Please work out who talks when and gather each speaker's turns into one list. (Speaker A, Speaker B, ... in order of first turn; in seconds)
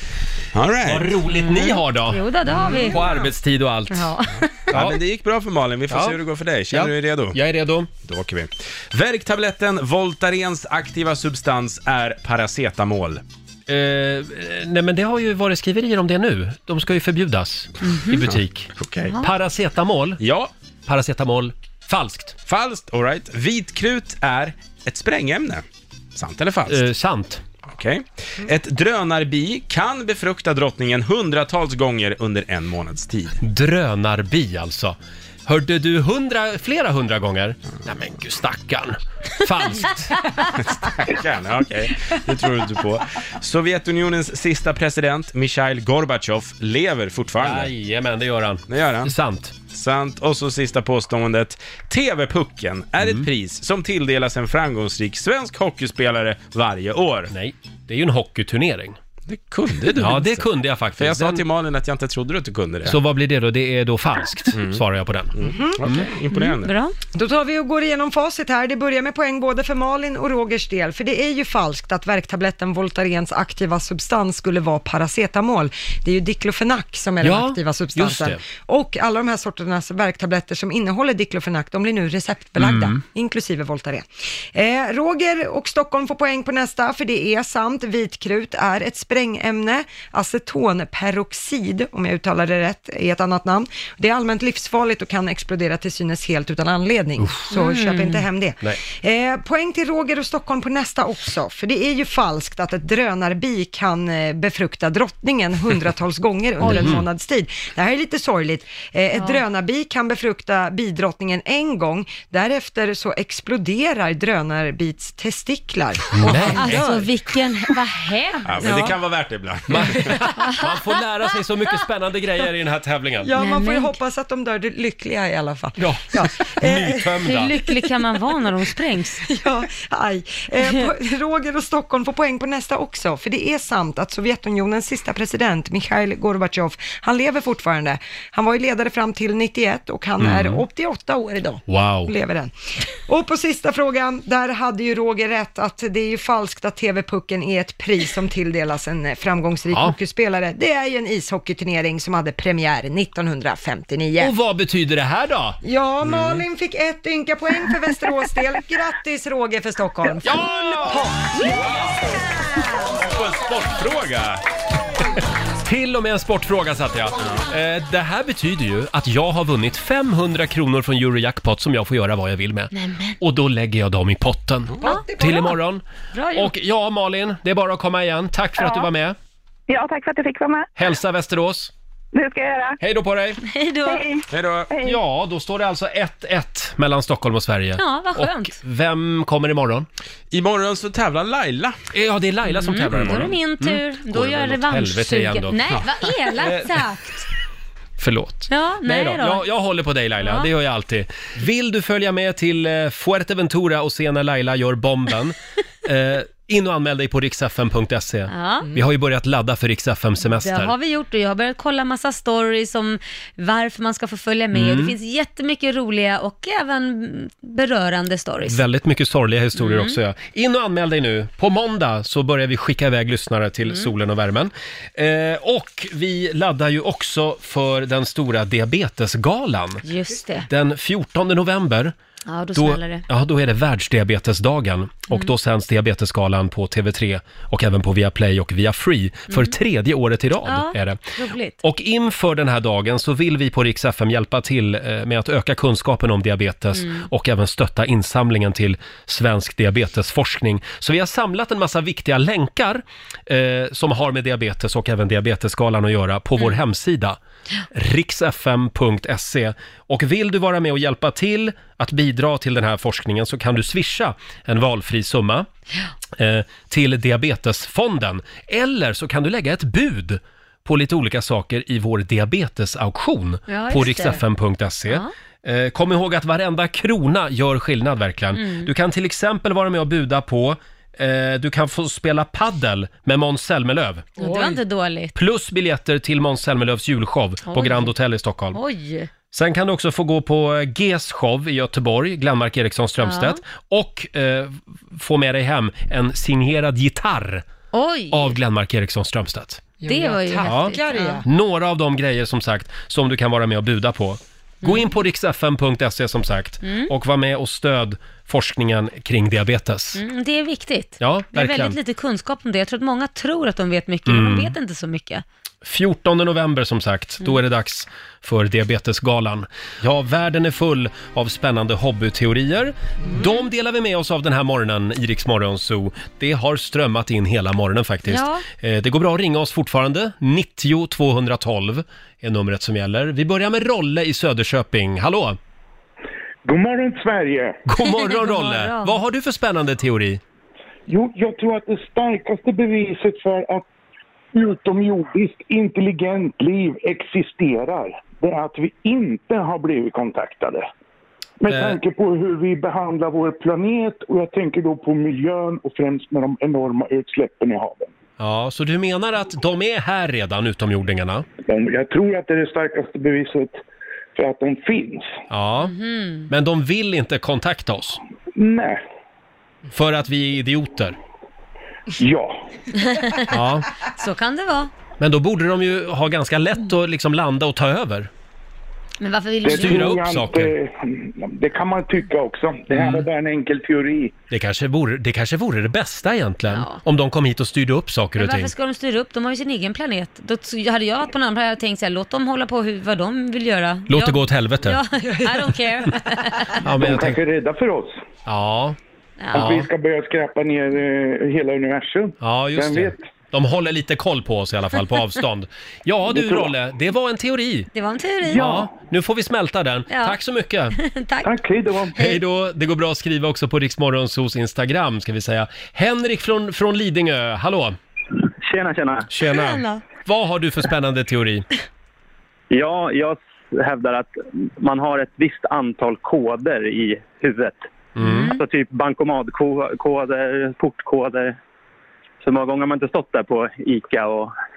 Speaker A: 0.5-1.1, 4.7-7.4, 8.0-13.2, 18.3-19.2, 20.2-20.5, 22.5-25.6, 26.1-26.8, 27.7-33.4, 40.5-47.7, 48.7-49.1, 49.7-57.3, 59.3-60.5, 61.0-63.0, 64.5-64.8, 65.3-66.7, 118.5-120.1, 163.0-164.4, 184.3-184.7, 190.3-191.8, 192.9-193.2
Speaker B: 0.9-2.2, 2.9-4.1, 4.7-5.0, 5.9-6.2, 6.7-7.9, 13.7-20.2, 20.9-22.4, 26.7-27.4, 33.4-40.2, 47.4-49.5, 53.0-53.3, 57.3-59.0, 60.0-61.4, 62.9-66.1, 77.2-78.4, 82.6-83.0, 97.2-97.5, 106.6-107.1, 116.1-116.9, 119.7-123.3, 125.8-127.5, 140.2-140.6, 141.7-142.1, 154.2-156.4, 160.2-161.1, 165.6-179.2, 180.8-181.7, 182.8-183.4, 184.8-189.9, 191.9-195.6, 196.4-196.8, 198.0-210.7, 214.5-214.9, 218.5-229.8, 230.5-231.9, 232.6-241.0, 241.6-257.2, 257.7-265.5, 266.2-284.2, 285.1-288.6, 289.3-297.5, 298.1-299.6, 300.4-310.0, 311.0-311.8, 314.1-314.6, 315.6-335.4, 337.7-340.2, 351.5-351.8, 358.2-361.2, 365.3-365.7, 366.3-368.0, 369.7-371.0, 373.3-373.7, 375.0-378.1, 379.5-380.5, 382.7-383.1, 384.3-388.5, 393.9-394.8, 396.6-397.2, 398.3-398.8, 399.3-399.7, 402.2-407.7, 408.3-410.8, 412.0-417.8, 419.1-421.5, 428.0-428.3
Speaker C: 1.4-3.0, 3.9-4.5, 17.8-18.2, 66.4-67.0, 97.5-98.3, 109.1-109.4, 116.5-118.8, 123.4-124.0, 127.2-129.3, 130.6-130.9, 172.7-173.2, 176.1-176.5, 183.4-184.0, 187.8-188.6, 192.5-197.2, 198.5-199.4, 200.2-200.5, 208.3-208.7, 210.2-218.6, 219.6-220.0, 229.8-230.5, 232.3-233.1, 240.5-241.6, 246.8-247.1, 273.5-274.2, 278.4-278.7, 284.2-285.1, 287.5-287.9, 288.5-289.1, 293.0-293.4, 297.7-298.4, 299.9-301.2, 306.6-306.9, 309.9-315.2, 328.1-328.4, 337.8-339.0, 365.6-366.3, 372.8-373.3, 373.9-374.7, 379.0-379.9, 386.5-386.8, 388.2-396.6, 399.2-399.5, 407.7-408.5, 409.9-410.2, 410.8-411.3, 419.3-419.8, 428.0-428.4
Speaker D: 65.4-65.9, 67.1-117.1, 118.6-119.0, 123.2-127.7, 129.3-154.3, 155.6-162.1, 174.8-175.5, 299.8-301.3, 395.1-395.5
Speaker E: 179.7-180.7, 182.1-182.8, 183.8-185.0
Speaker F: 336.4-337.6, 340.9-343.7, 344.3-350.6, 351.4-357.9, 361.5-363.6, 364.2-365.2, 368.4-368.8, 372.0-372.5, 379.4-384.1, 396.8-398.0, 399.3-403.0, 406.1-406.5, 408.3-408.7, 411.2-412.0
Speaker G: 418.4-419.1, 422.5-427.6, 428.3-431.4, 432.2-434.3